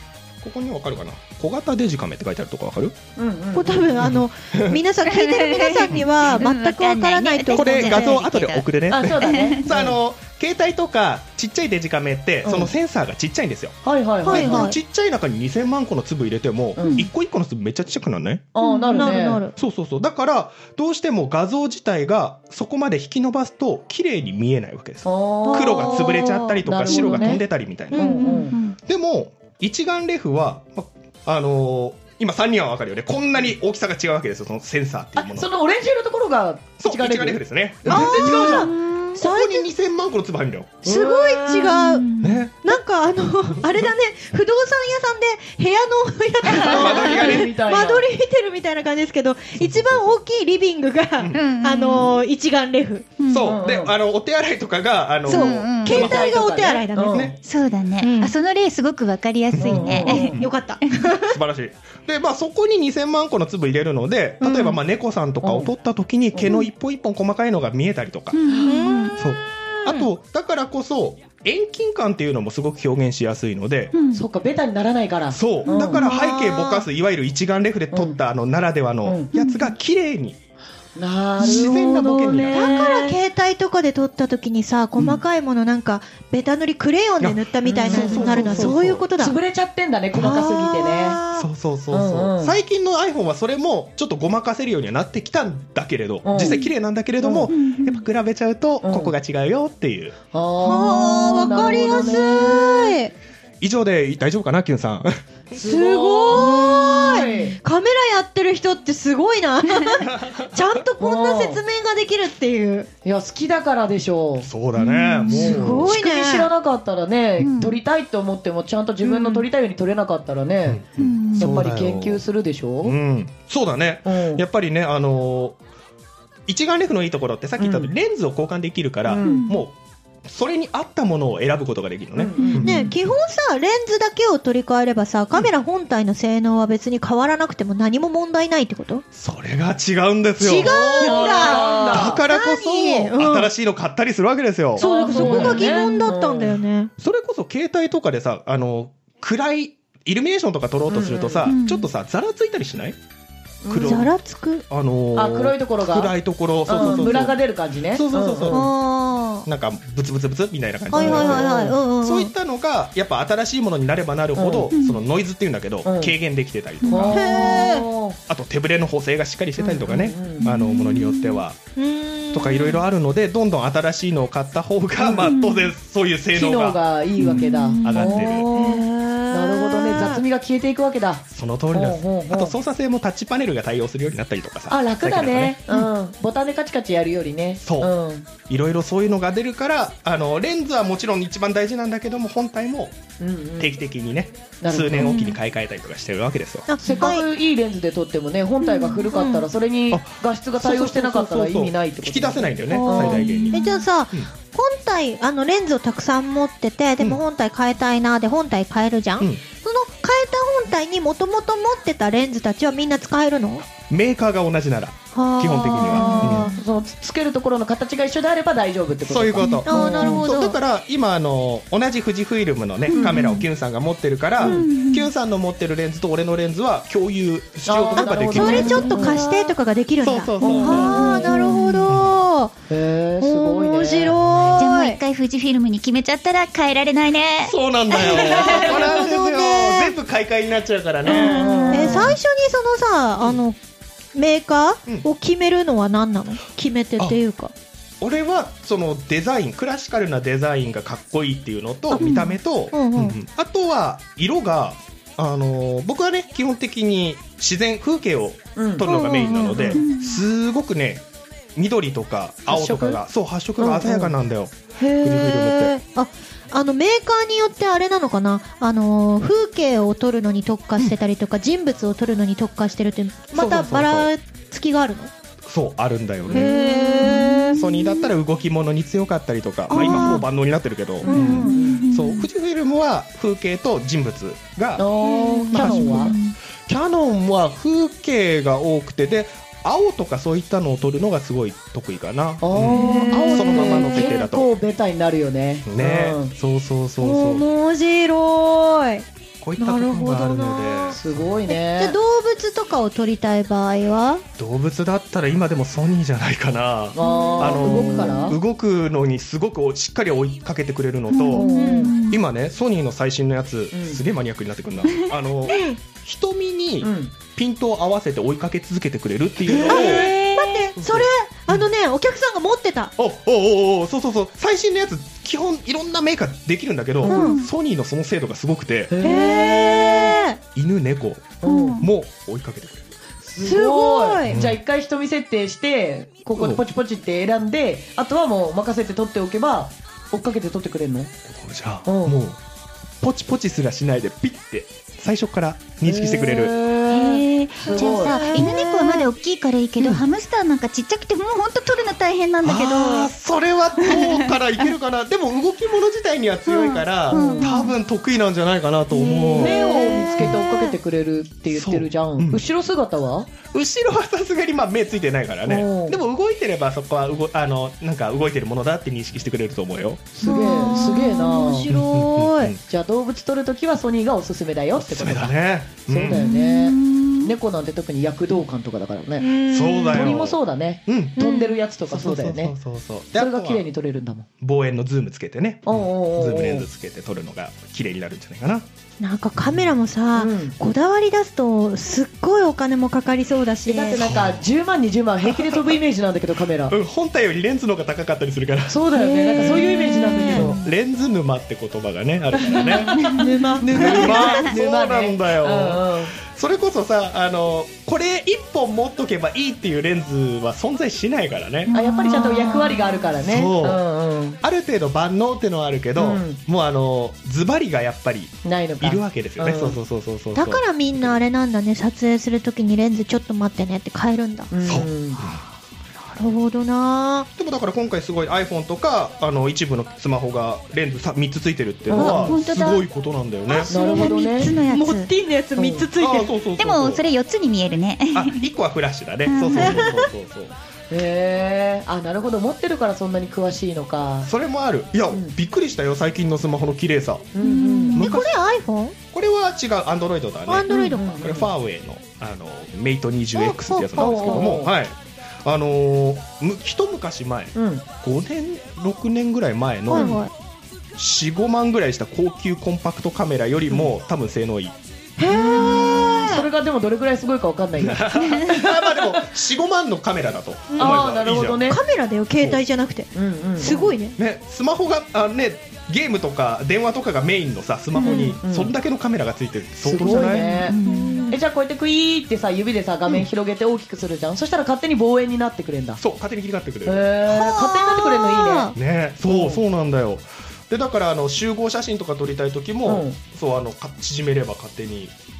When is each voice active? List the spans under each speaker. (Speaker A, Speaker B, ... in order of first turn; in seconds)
Speaker A: 0.4-3.0, 4.0-4.8, 7.5-18.5, 19.6-28.0, 28.8-35.5, 36.8-40.8, 42.2-42.5, 46.5-47.5, 49.6-50.1, 53.3-56.3, 59.5-59.9, 61.3-68.4, 69.2-73.9, 75.3-80.4, 81.4-82.8, 87.2-89.1, 91.3-100.2, 103.6-106.6, 110.0-110.5, 114.4-116.0, 120.7-122.2, 122.8-125.6, 126.5-133.0, 139.2-145.6, 147.0-153.0, 153.7-154.1, 154.7-157.4, 157.9-158.6, 159.5-167.7, 168.3-171.6, 172.3-178.5, 181.3-185.6, 187.6-187.9, 188.5-193.0, 193.6-196.7, 199.9-203.6, 213.8-216.5, 219.1-229.0, 230.0-232.2, 234.2-234.5, 237.4-242.0, 248.0-261.0, 261.6-265.8, 273.3-274.1, 275.4-276.5, 277.6-284.9, 285.5-286.1, 286.7-294.5, 295.6-297.4, 299.4-301.4, 304.4-311.5, 312.1-320.2, 320.8-321.7, 323.0-329.0, 330.6-332.9, 334.2-334.6, 336.4-336.6, 341.3-342.4, 343.0-346.6, 352.4-360.4, 361.5-362.4, 363.5-370.1, 371.7-372.6, 374.8-376.2, 379.5-381.2, 381.9-383.6, 384.4-388.7, 394.0-394.5, 395.2-395.8, 396.7-398.8, 400.3-403.0, 403.7-411.7, 413.2-413.8, 414.4-421.2, 424.6-425.4, 427.4-433.7, 436.0-437.0, 438.1-440.5, 444.2-447.3, 447.9-448.3, 449.1-460.2, 461.0-464.8, 467.8-471.7, 474.2-480.7, 486.0-487.1, 488.7-495.1
Speaker B: 3.2-3.9, 8.9-10.0, 12.4-12.7, 13.8-14.7, 16.8-17.1, 18.5-19.4, 25.1-27.4, 27.9-28.6, 35.2-38.7, 40.8-42.0, 46.6-48.0, 53.4-53.9, 55.9-57.4, 59.6-60.4, 65.4-65.7, 74.1-76.1, 77.9-78.2, 79.0-79.3, 81.0-83.1, 87.8-91.2, 91.9-92.6, 96.2-96.6, 97.2-97.5, 98.8-99.1, 100.3-103.0, 105.5-107.6, 111.0-111.6, 113.0-114.5, 115.8-120.8, 121.3-123.0, 124.0-124.4, 127.6-127.9, 129.1-129.5, 132.2-132.7, 140.6-142.2, 144.8-146.7, 150.9-151.5, 153.6-154.1, 155.2-156.1, 156.7-158.7, 160.9-161.7, 164.4-164.7, 165.8-166.2, 166.8-168.2, 169.6-170.4, 175.0-175.3, 176.3-182.6, 184.7-188.3, 193.2-193.8, 194.6-195.3, 196.8-203.5, 215.8-220.3, 222.9-223.2, 224.4-224.7, 227.7-229.2, 230.4-231.3, 232.7-234.2, 241.1-242.1, 258.6-258.9, 259.6-259.8, 262.5-263.0, 263.6-264.1, 281.0-281.8, 284.8-286.1, 292.4-296.4, 300.9-302.0, 306.9-308.4, 311.3-311.9, 313.7-314.0, 316.8-317.1, 319.4-320.2, 327.0-327.3, 328.9-330.1, 331.4-331.9, 333.2-341.1, 341.9-342.2, 345.8-348.3, 357.1-357.4, 359.4-363.3, 365.4-366.0, 370.1-371.7, 372.6-379.3, 379.9-382.5, 383.2-384.3, 385.7-386.7, 390.2-390.6, 393.7-396.8, 398.7-400.6, 402.9-406.1, 411.7-414.4, 416.0-416.4, 418.4-419.8, 424.5-425.2, 431.9-432.3, 433.7-434.5, 435.6-435.9, 440.9-444.3, 447.4-448.0, 450.9-451.5, 454.0-454.7, 457.6-457.9, 459.9-460.2, 465.3-469.1, 470.8-471.8, 473.1-473.9, 478.0-478.7, 479.8-480.8, 481.3-486.0, 486.9-488.7, 489.3-489.6, 492.9-493.2
Speaker C: 3.5-8.2, 14.2-14.8, 18.6-19.6, 25.5-27.4, 27.9-28.6, 37.9-39.7, 40.8-53.1, 55.3-57.3, 58.0-58.3, 59.9-61.4, 64.4-64.8, 68.6-70.1, 75.7-76.9, 82.3-89.4, 90.1-91.5, 100.6-103.1, 105.6-112.9, 115.3-116.5, 119.0-119.5, 132.6-139.1, 140.4-143.5, 144.8-146.9, 153.8-154.7, 156.8-157.2, 158.5-159.5, 160.9-162.3, 167.1-167.9, 171.8-172.8, 178.3-180.2, 196.7-197.3, 198.6-199.5, 202.7-213.7, 215.2-216.6, 219.7-220.6, 228.0-232.6, 233.2-235.0, 238.1-239.9, 241.7-243.6, 244.1-247.5, 251.9-252.2, 252.7-253.2, 258.8-259.8, 264.8-275.1, 276.3-277.7, 279.7-280.2, 281.1-281.8, 292.7-294.1, 297.0-299.1, 299.6-301.0, 301.5-304.2, 307.0-308.4, 311.3-312.0, 315.5-315.8, 319.7-322.9, 327.1-327.4, 329.0-330.4, 331.4-331.9, 333.4-334.4, 347.6-349.1, 357.1-357.7, 359.0-360.8, 370.2-372.5, 379.2-380.2, 381.2-381.6, 389.0-394.1, 398.9-400.6, 403.0-404.3, 420.4-424.5, 426.1-427.3, 431.9-432.3, 433.5-436.3, 439.5-440.1, 447.9-449.0, 450.5-451.1, 453.4-454.6, 459.9-460.3, 465.2-466.5, 470.7-471.0, 471.7-474.2, 478.0-478.4, 480.8-481.4, 487.2-488.8
Speaker D: 5.0-9.6, 28.0-28.7, 41.9-42.4, 51.3-52.2, 53.2-53.5, 55.3-56.1, 57.4-60.5, 68.3-69.2, 73.9-74.2, 79.3-79.8, 97.5-98.0, 114.8-115.7, 117.4-117.8, 121.0-121.6, 129.2-129.6, 132.4-132.9, 151.5-151.9, 164.7-165.0, 166.8-167.1, 170.4-171.4, 175.2-175.7, 177.2-178.3, 203.2-203.8, 216.0-216.4, 219.4-220.2, 222.9-223.4, 224.4-225.1, 228.3-229.6, 230.6-231.9, 234.6-238.8, 241.1-242.2, 252.0-252.4, 259.8-260.2, 276.4-277.7, 279.8-280.0, 281.1-282.3, 285.1-286.3, 292.9-293.3, 311.1-312.2, 320.1-320.6, 346.9-353.1, 353.8-354.3, 356.5-357.7, 358.9-359.4, 376.1-377.3, 402.6-403.2, 404.1-404.5, 411.7-413.1, 431.9-432.8, 433.9-435.1, 436.6-438.5, 439.3-439.9, 447.4-448.0, 480.7-481.3